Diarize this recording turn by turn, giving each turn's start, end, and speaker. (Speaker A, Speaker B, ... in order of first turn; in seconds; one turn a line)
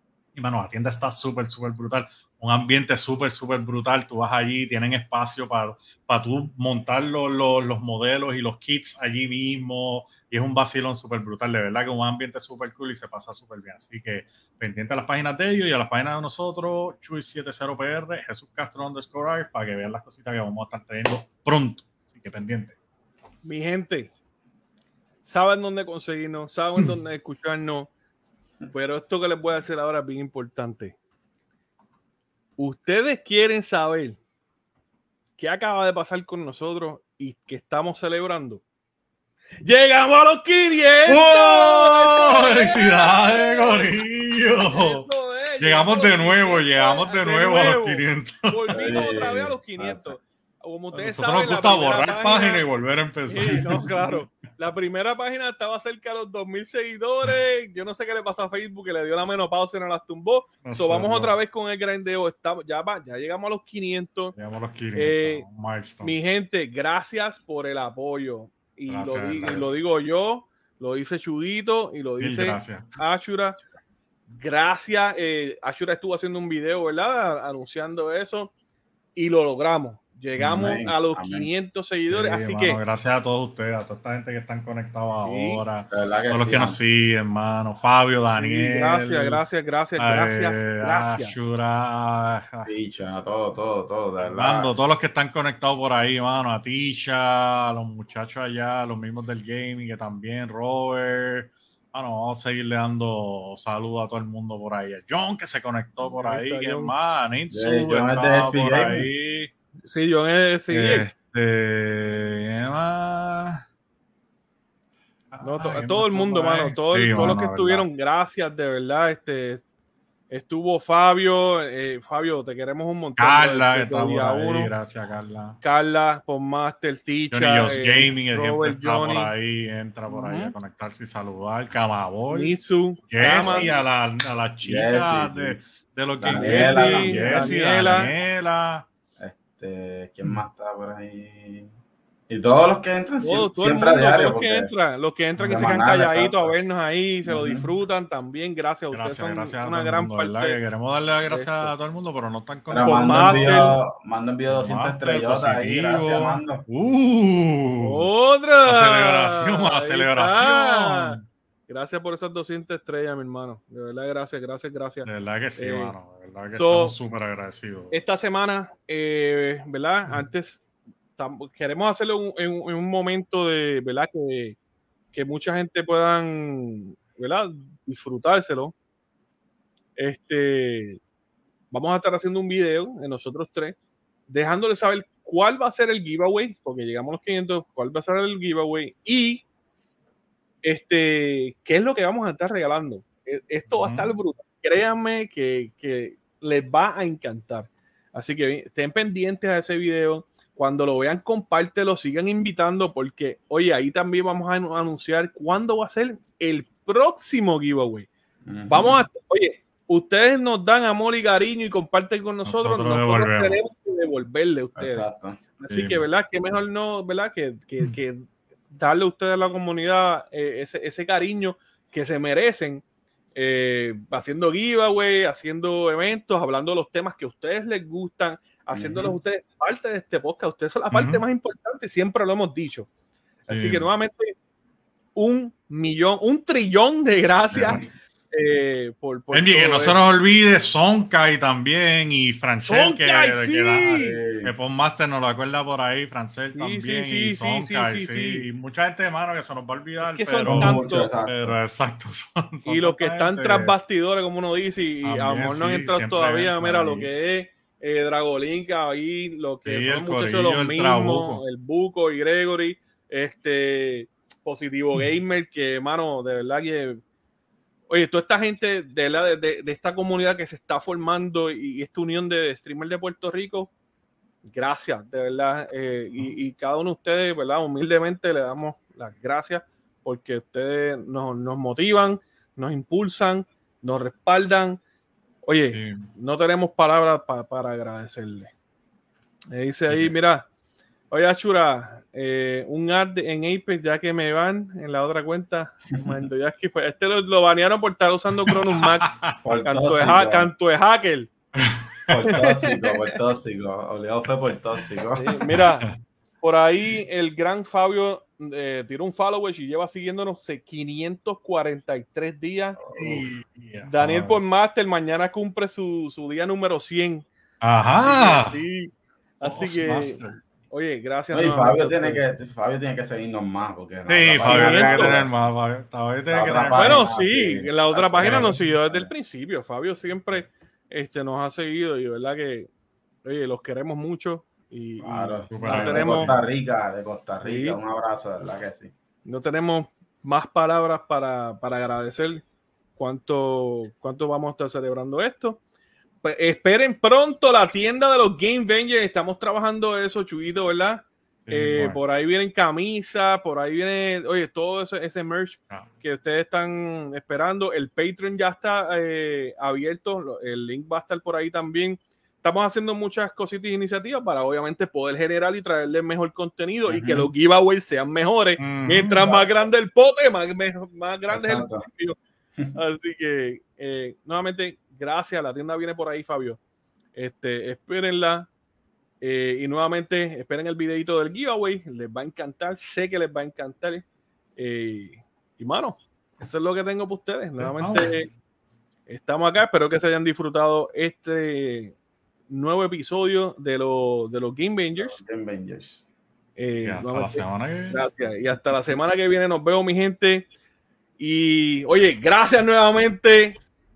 Speaker A: 0.3-22.8
Speaker B: 23.4-24.1
Speaker B: 25.2-27.9
Speaker B: 28.7-30.9
Speaker B: 32.6-34.2
Speaker B: 35.4-38.6
Speaker B: 39.6-43.9
Speaker A: 41.1-45.1
Speaker B: 44.6-52.6
Speaker A: 45.6-48.7
Speaker C: 48.7-50.1
Speaker A: 50.9-53.9
Speaker B: 53.3-64.3
Speaker A: 60.6-61.4
Speaker A: 64.3-66.1
Speaker B: 65.0-65.4
Speaker B: 66.0-73.6
Speaker A: 68.9-69.7
Speaker A: 72.2-72.9
Speaker B: 74.3-78.5
Speaker B: 79.1-82.8
Speaker C: 80.4-81.5
Speaker A: 82.1-89.4
Speaker B: 85.2-85.6
Speaker C: 85.9-86.8
Speaker B: 88.3-91.5
Speaker A: 90.0-92.7
Speaker C: 92.7-94.7
Speaker A: 94.2-109.5
Speaker B: 106.0-106.9
Speaker C: 107.5-109.1
Speaker B: 108.8-109.1
Speaker B: 109.8-111.1
Speaker A: 110.7-113.6
Speaker A: 115.3-117.8
Speaker B: 115.4-119.6
Speaker B: 120.3-124.7
Speaker A: 123.2-125.6
Speaker B: 125.6-129.3
Speaker A: 127.3-132.6
Speaker B: 130.1-130.5
Speaker B: 132.3-133.7
Speaker A: 133.1-138.8
Speaker C: 133.2-133.8
Speaker C: 134.6-135.6
Speaker C: 136.2-137.5
Speaker B: 136.3-138.1
Speaker C: 139.2-141.7
Speaker C: 142.3-144.7
Speaker B: 143.2-150.6
Speaker A: 145.4-145.8
Speaker C: 145.5-146.5
Speaker C: 147.3-147.7
Speaker A: 148.9-153.8
Speaker B: 151.3-151.7
Speaker C: 152.7-156.6
Speaker B: 152.8-153.8
Speaker A: 154.5-158.1
Speaker B: 157.8-165.9
Speaker A: 158.7-161.2
Speaker A: 165.0-167.9
Speaker B: 166.5-166.9
Speaker B: 167.9-170.6
Speaker B: 171.2-174.6
Speaker B: 175.1-178.7
Speaker B: 179.9-181.0
Speaker B: 181.7-183.8
Speaker B: 184.3-189.4
Speaker B: 190.6-208.1
Speaker A: 193.7-194.1
Speaker C: 208.4-209.0
Speaker B: 208.7-215.1
Speaker A: 212.4-213.6
Speaker C: 214.8-215.4
Speaker B: 215.6-222.8
Speaker A: 215.7-216.0
Speaker B: 223.3-232.9
Speaker C: 228.7-229.1
Speaker A: 230.9-231.2
Speaker B: 233.4-234.3
Speaker A: 233.5-233.9
Speaker B: 235.1-240.0
Speaker A: 237.5-237.9
Speaker C: 237.6-237.8
Speaker A: 239.3-253.7
Speaker B: 242.7-244.2
Speaker C: 243.9-244.5
Speaker B: 246.5-248.4
Speaker B: 250.0-251.1
Speaker C: 250.5-251.6
Speaker B: 252.6-267.0
Speaker A: 255.0-257.1
Speaker A: 259.6-261.4
Speaker B: 267.9-273.7
Speaker B: 274.4-284.8
Speaker B: 285.4-288.5
Speaker A: 285.7-286.1
Speaker B: 289.5-290.5
Speaker A: 289.9-290.1
Speaker B: 291.1-301.3
Speaker A: 298.5-299.3
Speaker C: 299.4-300.5
Speaker A: 301.7-302.4
Speaker C: 302.1-305.6
Speaker B: 302.3-303.1
Speaker B: 305.1-305.9
Speaker B: 306.4-312.8
Speaker C: 312.8-313.3
Speaker A: 312.9-314.4
Speaker B: 313.8-317.2
Speaker A: 317.6-318.6
Speaker B: 318.0-322.2
Speaker A: 319.4-320.4
Speaker C: 321.3-325.3
Speaker A: 324.1-327.1
Speaker B: 324.4-325.2
Speaker C: 326.3-329.1
Speaker B: 326.7-332.7
Speaker A: 328.2-328.6
Speaker B: 333.2-336.4
Speaker C: 335.0-338.9
Speaker A: 335.5-336.4
Speaker B: 337.4-337.8
Speaker B: 339.2-342.4
Speaker B: 342.9-345.6
Speaker B: 346.2-372.2
Speaker A: 351.4-352.0
Speaker C: 366.9-367.3
Speaker A: 368.6-369.2
Speaker C: 369.2-369.4
Speaker C: 371.3-371.9
Speaker B: 372.7-376.6
Speaker B: 377.1-378.5
Speaker B: 379.2-384.0
Speaker B: 384.6-388.3
Speaker A: 387.6-388.2
Speaker B: 389.1-391.9
Speaker B: 392.5-395.2
Speaker C: 395.0-396.0
Speaker B: 396.6-400.5
Speaker A: 396.8-398.0
Speaker B: 401.2-403.6